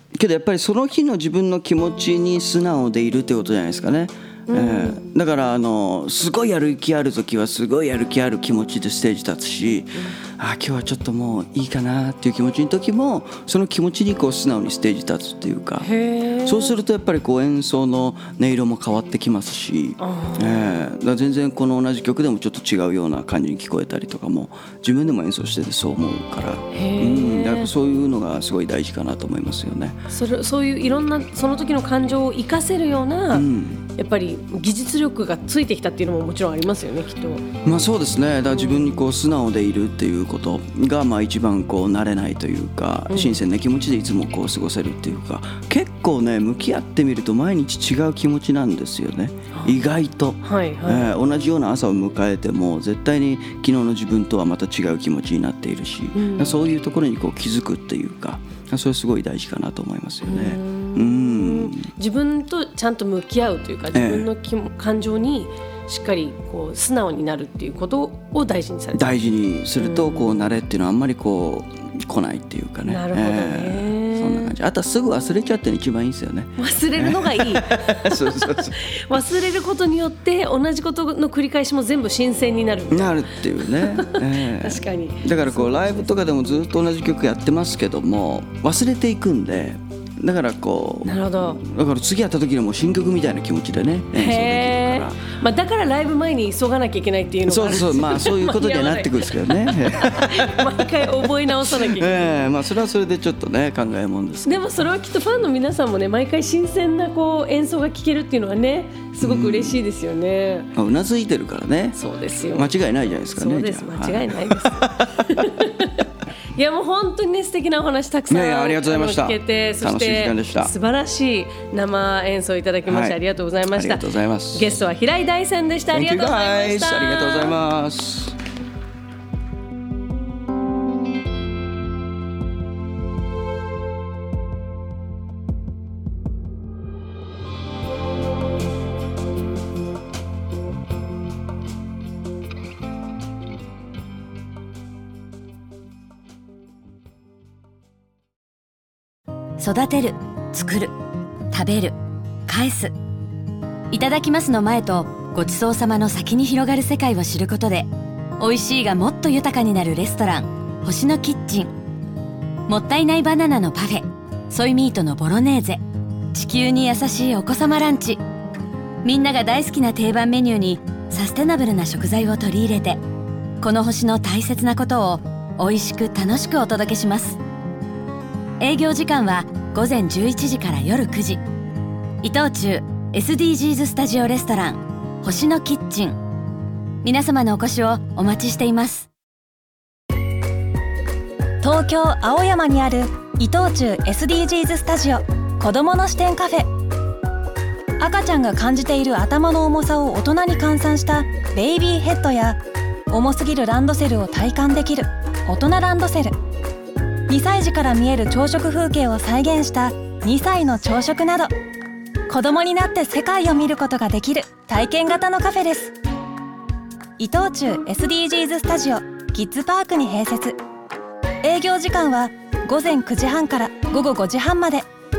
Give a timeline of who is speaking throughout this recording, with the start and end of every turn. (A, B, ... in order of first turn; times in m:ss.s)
0:00.1-0:15.9 A
0:04.5-0:05.0 B
0:15.8-0:16.8 B
0:16.4-0:30.0 A
0:20.0-0:20.8 B
0:26.7-0:27.7 B
0:30.1-0:37.4 B
0:33.3-0:33.8 A
0:37.6-1:01.9 A
0:43.1-0:43.4 B
0:49.5-0:49.8 B
0:50.4-0:51.1 B
0:56.1-0:56.6 B
1:00.2-1:09.0 B
1:03.9-1:04.3 A
1:08.9-1:18.8 A
1:09.8-1:10.5 B
1:12.8-1:14.5 B
1:16.6-1:26.2 B
1:22.9-1:35.2 A
1:31.0-1:31.6 B
1:34.1-1:42.3 B
1:37.4-1:44.6 A
1:44.4-1:50.7 B
1:49.2-1:49.8 A
1:50.7-1:52.0 A
1:52.0-1:52.7 B
1:52.5-1:55.5 A
1:53.3-2:07.6 B
1:58.3-2:00.7 A
2:02.8-2:03.2 A
2:03.7-2:04.7 A
2:05.9-2:08.4 A
2:29.6-2:30.9 C
2:31.5-2:32.0 C
2:32.5-2:32.9 C
2:33.9-2:41.7 C
2:42.7-2:45.8 C
2:46.3-2:48.2 C
2:49.0-2:53.0 C
2:53.6-2:57.4 C
2:58.6-3:01.4 C
3:02.2-3:06.2 C
3:07.0-3:09.1 C
3:11.6-3:16.7 D
3:18.0-3:22.6 D
3:23.1-3:26.3 D
3:27.3-3:31.5 D
3:32.3-3:36.0 D
3:37.2-3:40.5 D
3:41.4-3:44.8 D